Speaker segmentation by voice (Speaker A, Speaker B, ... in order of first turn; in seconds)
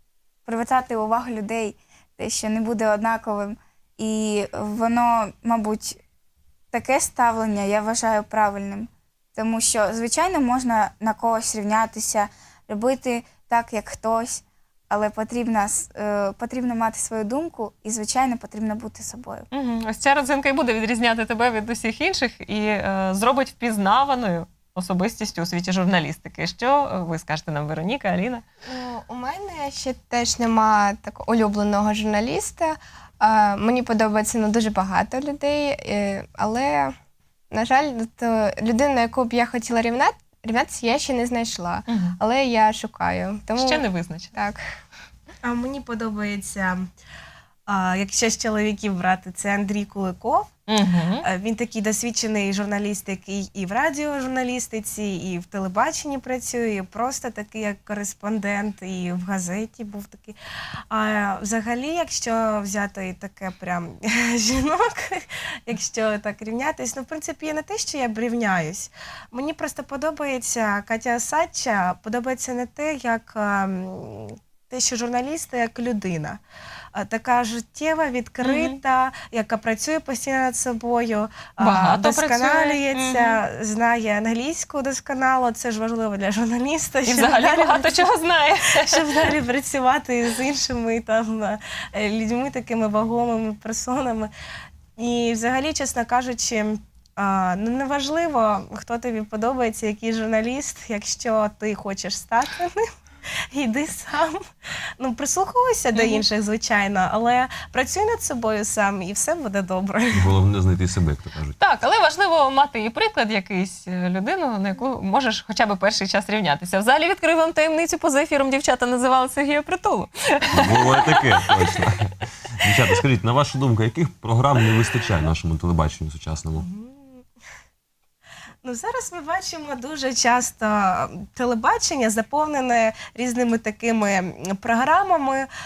Speaker A: 0.5-6.0, 6.7-19.5
Speaker B: 19.5-28.4, 41.9-42.2, 43.6-44.4, 50.7-51.3, 78.4-78.8, 81.6-83.4, 87.1-89.0, 106.0-106.2, 111.6-121.6
Speaker C: 28.6-37.0, 37.5-44.6
Speaker D: 45.4-46.9, 47.7-50.5, 51.2-60.4, 60.9-76.4, 76.9-88.0, 88.8-94.3, 95.0-102.9, 103.5-104.5, 105.0-110.3, 126.6-127.2, 128.6-135.5
Speaker E: 110.1-111.6, 120.5-126.7